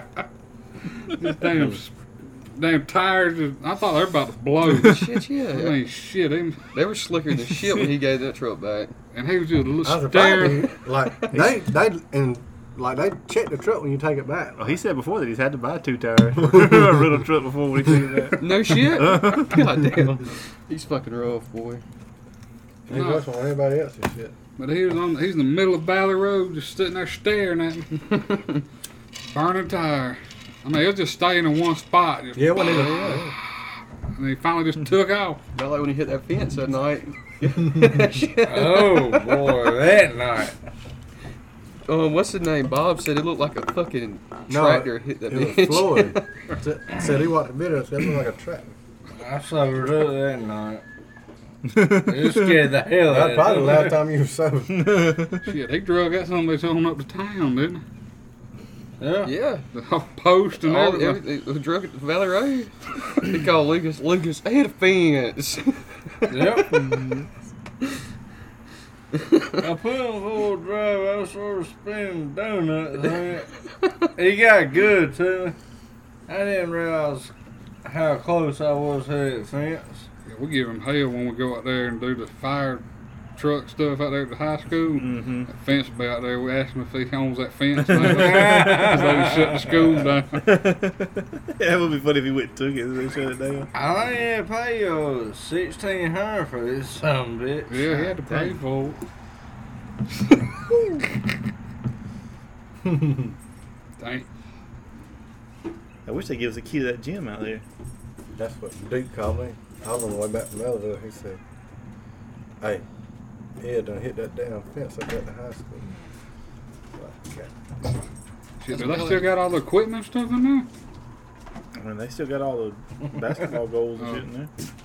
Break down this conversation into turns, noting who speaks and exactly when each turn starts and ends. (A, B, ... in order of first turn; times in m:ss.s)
0:01.0-0:05.0 A
0:04.8-0:05.8 B
0:05.5-0:06.6 A
0:06.7-0:08.9 B
0:09.1-0:10.7 A
0:09.8-0:14.8 C
0:14.6-0:19.6 D
0:16.4-0:17.0 C
0:18.4-0:21.8 B
0:22.9-0:24.4 C
0:22.9-0:23.2 A
0:24.6-0:28.2 A
0:29.3-0:33.2 A
0:32.4-0:33.3 C
0:32.6-0:33.2 B
0:34.2-0:35.4 A
0:35.5-0:39.5 B
0:38.4-0:40.6 E
0:41.9-0:46.2 B
0:44.5-0:48.7 C
0:49.2-0:50.8 E
0:51.6-0:52.5 D
0:52.1-0:54.0 E
0:53.0-0:54.9 C
0:54.7-0:55.4 D
0:55.4-0:57.8 A
0:59.0-0:59.3 E
0:59.2-0:59.7 B
0:59.7-1:01.2 A
1:00.6-1:06.6 B
1:06.3-1:06.8 E
1:06.9-1:07.2 D
1:09.1-1:09.6 B
1:09.6-1:13.5 E
1:14.2-1:15.6 E
1:16.3-1:17.3 E
1:17.8-1:20.1 E
1:20.3-1:22.8 A
1:23.4-1:30.4 A
1:25.0-1:25.5 D
1:27.8-1:28.6 D
1:27.9-1:29.7 E
1:30.4-1:33.7 D
1:33.7-1:37.8 E
1:37.7-1:39.0 A
1:38.2-1:38.5 D
1:42.8-1:43.4 C
1:44.0-1:44.2 A
1:46.1-1:47.6 D
1:48.4-1:51.4 C
1:52.6-1:52.8 C
1:53.6-1:55.9 C
1:56.9-1:57.5 C
1:58.6-2:00.7 A
1:58.7-1:59.4 B
2:01.7-2:04.5 D
2:04.0-2:04.2 A